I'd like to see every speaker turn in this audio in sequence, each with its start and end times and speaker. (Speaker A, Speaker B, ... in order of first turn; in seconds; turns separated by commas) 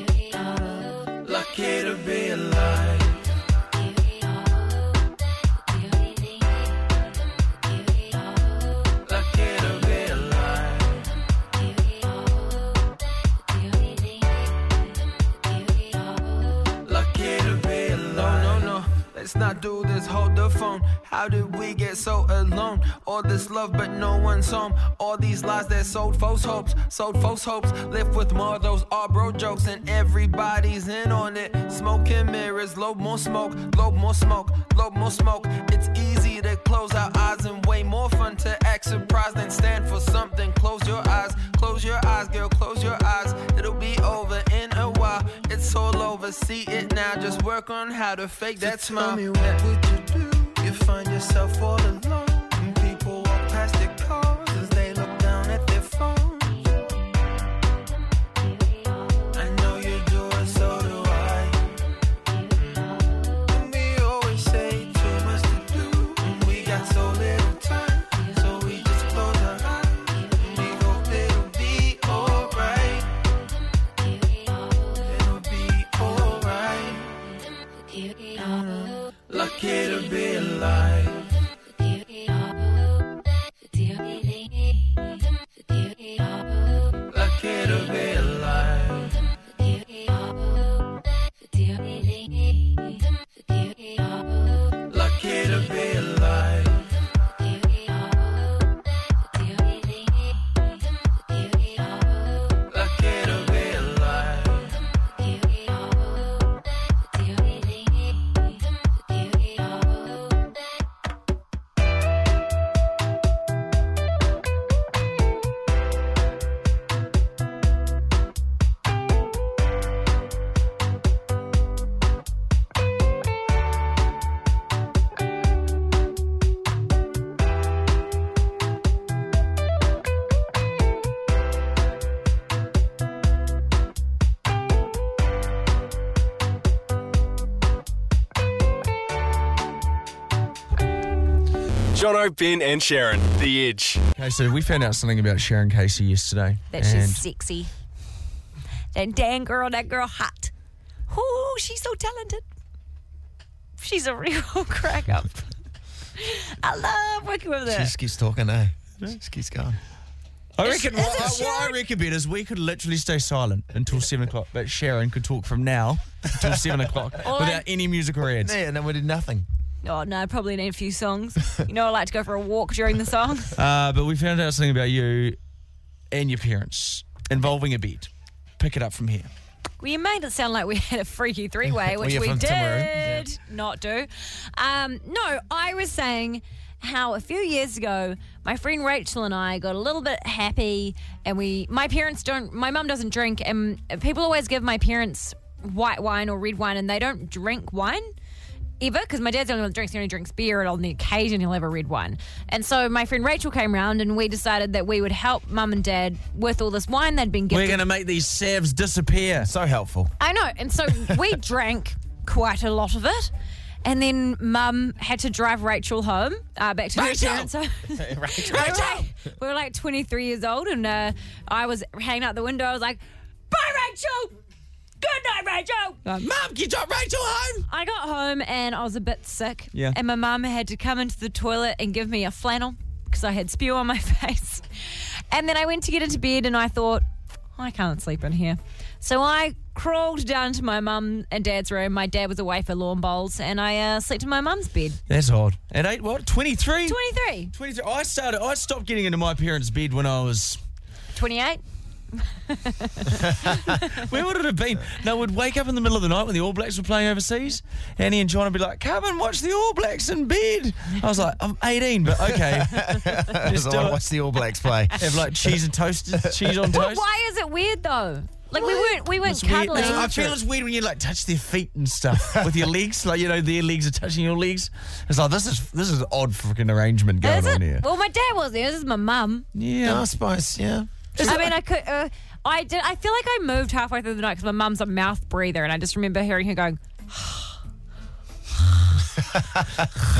Speaker A: 1.2-3.3, Speaker A: 9.1-11.2, Speaker A: 16.8-56.7, Speaker A: 59.3-61.6, Speaker A: 62.5-73.1, Speaker A: 75.0-77.2, Speaker A: 78.3-81.4, Speaker A: 87.1-89.2, Speaker A: 94.9-97.0, Speaker A: 102.7-104.8, Speaker B: 141.9-144.0, Speaker C: 144.2-147.2, Speaker D: 146.7-147.7, Speaker D: 148.9-150.5, Speaker D: 151.1-152.4, Speaker D: 153.8-155.5, Speaker D: 156.2-157.9, Speaker E: 157.7-159.8, Speaker C: 160.6-168.5, Speaker D: 160.6-161.8, Speaker E: 166.4-166.7, Speaker D: 167.2-167.7, Speaker E: 168.4-169.5, Speaker D: 169.8-173.6, Speaker C: 173.6-175.4, Speaker C: 176.1-179.3, Speaker D: 179.8-198.1, Speaker E: 181.9-183.1, Speaker D: 198.8-207.8, Speaker C: 207.5-209.5, Speaker E: 209.4-210.1, Speaker D: 210.2-213.3, Speaker D: 213.8-224.4, Speaker C: 216.9-217.5, Speaker C: 218.4-219.1, Speaker D: 225.0-226.0, Speaker C: 226.1-227.7, Speaker D: 227.7-237.1, Speaker C: 229.7-230.0, Speaker D: 237.6-245.0, Speaker C: 245.1-247.0, Speaker D: 246.9-247.5, Speaker C: 247.5-250.6, Speaker D: 251.2-251.6, Speaker D: 252.2-254.0, Speaker C: 253.8-264.0, Speaker E: 262.2-265.6, Speaker C: 265.0-267.1, Speaker E: 266.2-266.5, Speaker D: 266.7-270.1, Speaker C: 268.6-277.9, Speaker E: 269.7-270.4, Speaker D: 277.2-279.5, Speaker C: 279.6-280.1, Speaker E: 279.8-281.4, Speaker C: 281.2-281.5, Speaker D: 281.2-287.5